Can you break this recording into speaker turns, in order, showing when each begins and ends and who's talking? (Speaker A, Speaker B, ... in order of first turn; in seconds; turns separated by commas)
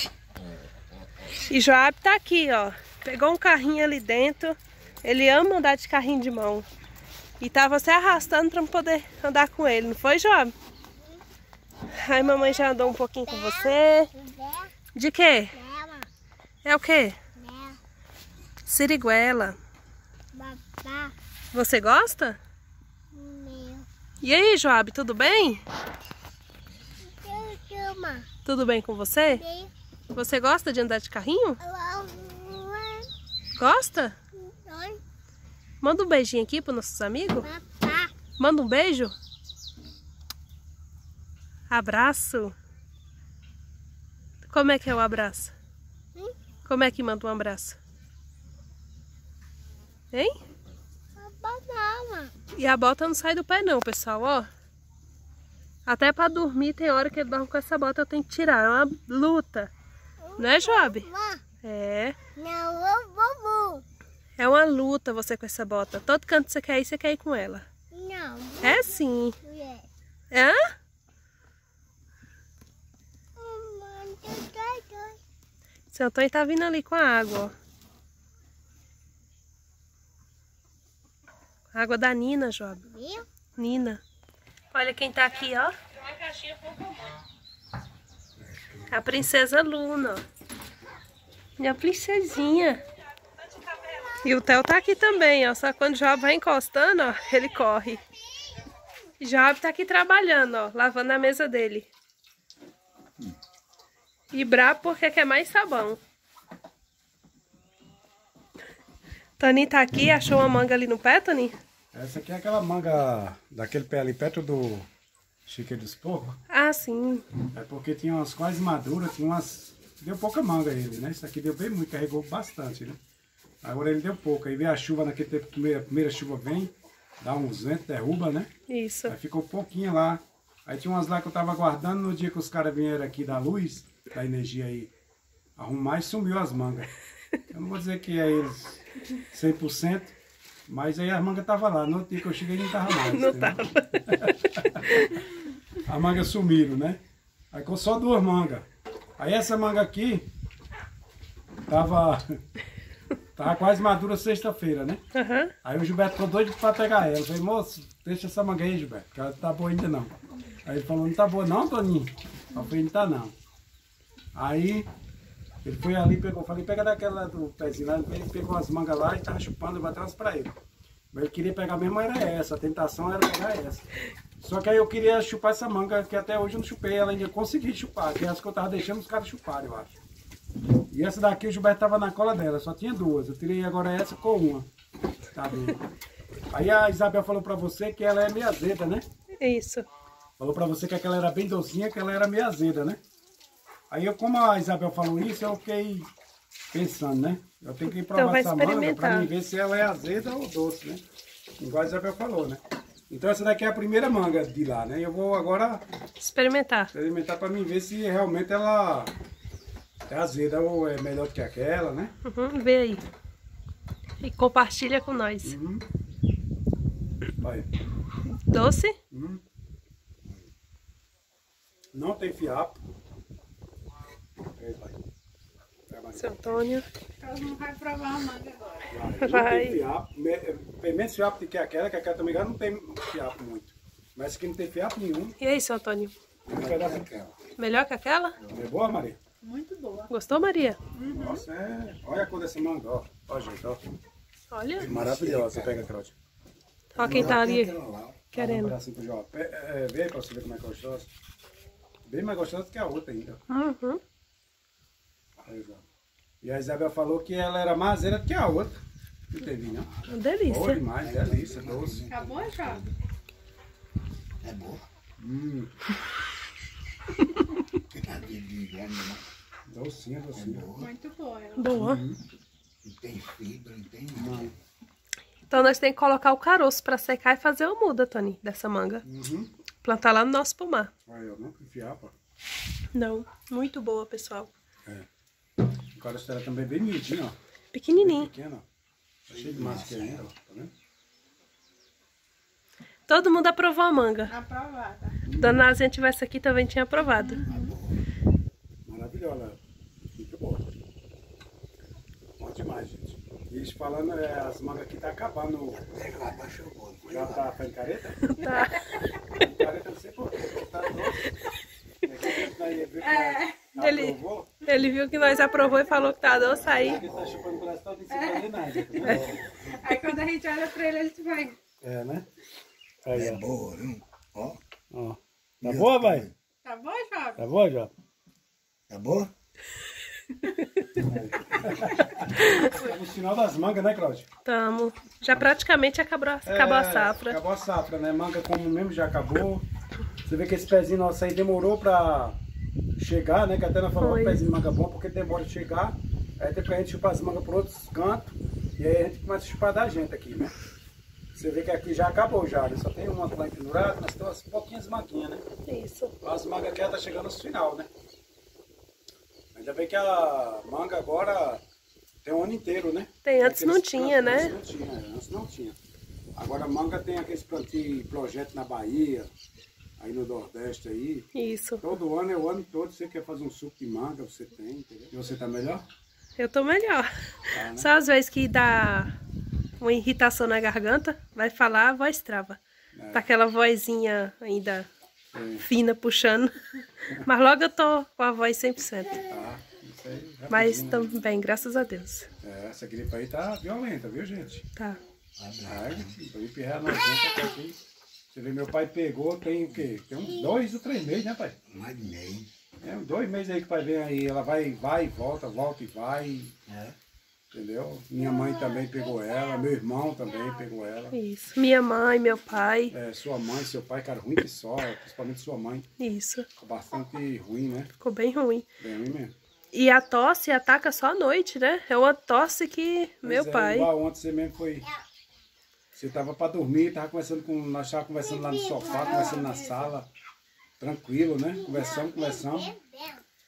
Speaker A: 1.5-6.7, Speaker A: 7.4-10.5, Speaker A: 11.9-14.1, Speaker B: 13.4-14.7, Speaker A: 14.9-15.6, Speaker B: 15.6-16.1, Speaker A: 16.6-17.2, Speaker B: 17.4-17.8, Speaker A: 18.7-19.6, Speaker B: 20.3-21.1, Speaker A: 21.5-22.4, Speaker B: 23.1-23.9, Speaker A: 24.2-25.6, Speaker B: 27.2-28.3, Speaker A: 28.4-29.4, Speaker B: 29.4-29.7, Speaker A: 30.1-31.6, Speaker B: 31.6-33.1, Speaker A: 33.5-34.2, Speaker B: 34.5-35.0, Speaker A: 35.8-37.5, Speaker B: 37.4-38.1, Speaker A: 38.4-39.1, Speaker A: 41.7-42.5, Speaker A: 44.5-45.5, Speaker A: 46.6-47.8, Speaker B: 51.2-52.4, Speaker A: 52.5-54.5, Speaker A: 55.9-59.7, Speaker B: 60.4-61.4, Speaker A: 60.4-61.1, Speaker A: 61.6-62.2, Speaker B: 62.4-63.8, Speaker A: 64.4-67.7, Speaker B: 67.9-68.7, Speaker A: 68.6-69.4, Speaker B: 69.4-69.9, Speaker A: 70.3-70.6, Speaker B: 73.4-75.2, Speaker A: 75.9-77.5, Speaker A: 81.7-82.9, Speaker B: 82.9-83.2, Speaker A: 83.6-84.0, Speaker A: 84.7-86.8, Speaker C: 88.5-88.9, Speaker A: 88.9-90.2, Speaker A: 91.6-92.8, Speaker A: 94.2-98.0, Speaker A: 99.2-101.9, Speaker A: 104.3-106.0, Speaker A: 109.4-111.5, Speaker D: 111.9-114.9, Speaker D: 115.5-116.4, Speaker A: 116.5-117.2, Speaker D: 117.5-123.0, Speaker D: 123.6-128.5, Speaker A: 128.7-129.1, Speaker D: 129.1-134.9, Speaker D: 135.6-136.9, Speaker D: 137.5-140.2, Speaker D: 140.7-143.6, Speaker A: 142.9-144.3, Speaker D: 144.1-144.9, Speaker A: 144.9-145.2, Speaker D: 145.9-147.0, Speaker D: 147.5-148.7, Speaker D: 149.2-150.3, Speaker D: 151.7-152.4, Speaker D: 153.4-155.0, Speaker A: 155.1-155.5, Speaker D: 155.6-163.3, Speaker D: 164.3-164.9, Speaker D: 165.6-170.6, Speaker D: 171.1-173.9, Speaker D: 174.4-179.9, Speaker D: 180.9-184.7, Speaker D: 185.3-185.8, Speaker D: 186.5-189.0, Speaker A: 189.4-189.9, Speaker D: 190.4-193.0, Speaker D: 193.9-196.1, Speaker D: 196.7-201.0, Speaker A: 198.1-199.3, Speaker D: 201.6-205.8, Speaker A: 206.2-206.9, Speaker D: 206.9-209.1, Speaker D: 210.1-212.1, Speaker A: 212.2-213.0, Speaker A: 214.2-215.6, Speaker D: 215.4-215.8, Speaker D: 217.4-217.7, Speaker A: 218.5-218.9, Speaker D: 219.1-219.4, Speaker D: 221.9-222.8, Speaker D: 224.5-225.0, Speaker D: 225.9-226.6, Speaker A: 226.1-226.9, Speaker E: 227.2-228.9, Speaker D: 228.9-235.4, Speaker A: 229.2-229.8, Speaker A: 235.4-236.1, Speaker C: 236.5-237.3, Speaker D: 236.5-237.1, Speaker A: 237.6-238.4, Speaker D: 238.5-239.2, Speaker E: 239.4-240.1, Speaker A: 240.1-240.8, Speaker E: 240.9-241.4, Speaker D: 241.1-243.8, Speaker A: 244.5-244.9, Speaker C: 244.8-245.9, Speaker D: 244.8-246.1, Speaker A: 246.9-247.8, Speaker C: 247.0-248.3, Speaker D: 247.0-247.5, Speaker A: 248.3-248.8, Speaker D: 248.3-251.1, Speaker D: 252.1-253.4, Speaker A: 253.5-254.0, Speaker D: 255.4-255.8, Speaker D: 256.4-258.8, Speaker D: 259.3-259.9, Speaker A: 260.1-260.8, Speaker D: 260.4-262.1, Speaker C: 261.0-262.9, Speaker E: 262.1-262.9, Speaker C: 264.4-264.8, Speaker D: 265.2-265.7, Speaker C: 267.9-269.2, Speaker D: 269.7-270.7, Speaker C: 270.4-270.9, Speaker E: 270.8-271.8, Speaker A: 271.6-272.0, Speaker D: 271.7-272.2, Speaker C: 272.8-274.6, Speaker D: 274.1-274.5, Speaker A: 275.5-279.0, Speaker D: 279.1-279.5, Speaker A: 279.8-280.9, Speaker D: 281.1-282.1, Speaker A: 282.9-284.5, Speaker D: 285.9-287.4, Speaker A: 287.7-288.3, Speaker D: 287.9-288.6, Speaker D: 289.3-290.7, Speaker C: 289.3-290.3, Speaker A: 293.1-294.3, Speaker E: 294.3-295.2, Speaker D: 295.2-295.6, Speaker A: 295.4-297.4, Speaker E: 297.0-297.8, Speaker C: 297.5-298.0, Speaker D: 298.9-299.6, Speaker D: 300.2-300.7, Speaker D: 302.4-305.9, Speaker C: 305.9-307.5, Speaker D: 307.1-308.3, Speaker A: 308.3-309.1, Speaker D: 309.4-311.3, Speaker D: 312.0-314.5, Speaker E: 313.0-313.7, Speaker A: 313.8-317.0, Speaker D: 316.6-319.4, Speaker E: 318.1-319.1, Speaker C: 319.1-319.8, Speaker E: 319.8-321.6, Speaker D: 321.8-322.3, Speaker D: 323.1-323.4, Speaker C: 323.1-324.6, Speaker D: 324.9-326.3, Speaker C: 325.6-326.3, Speaker E: 326.6-327.5, Speaker D: 327.4-327.9, Speaker C: 328.9-329.3, Speaker D: 330.9-334.3, Speaker A: 332.4-332.7, Speaker A: 334.4-337.4, Speaker D: 336.5-339.7, Speaker D: 340.2-342.4, Speaker D: 343.0-350.5, Speaker A: 344.0-344.4, Speaker D: 351.4-355.4, Speaker A: 355.7-356.1, Speaker D: 356.2-357.9, Speaker D: 359.6-361.6, Speaker D: 362.2-365.8, Speaker A: 363.2-364.6, Speaker D: 366.4-369.3, Speaker D: 370.0-371.3, Speaker A: 371.4-371.9, Speaker D: 371.8-375.8, Speaker A: 376.4-379.1, Speaker D: 377.5-377.9, Speaker A: 379.8-382.6, Speaker D: 382.9-383.3, Speaker A: 383.1-384.9, Speaker D: 385.3-385.6, Speaker A: 385.6-386.5, Speaker A: 387.2-389.2, Speaker D: 389.3-391.1, Speaker A: 390.5-392.3, Speaker D: 392.4-394.6, Speaker C: 395.4-396.1, Speaker D: 395.6-397.8, Speaker D: 398.3-401.6, Speaker C: 401.7-402.5, Speaker D: 402.8-406.6, Speaker C: 406.7-407.0, Speaker D: 407.5-411.2, Speaker A: 411.1-412.9, Speaker D: 412.9-415.9, Speaker A: 416.0-416.5, Speaker D: 416.6-417.9, Speaker A: 418.0-418.6, Speaker D: 418.8-419.3, Speaker A: 419.7-423.9, Speaker D: 423.2-424.9, Speaker D: 425.9-430.1, Speaker E: 428.8-429.9, Speaker D: 430.8-432.8, Speaker B: 432.8-433.2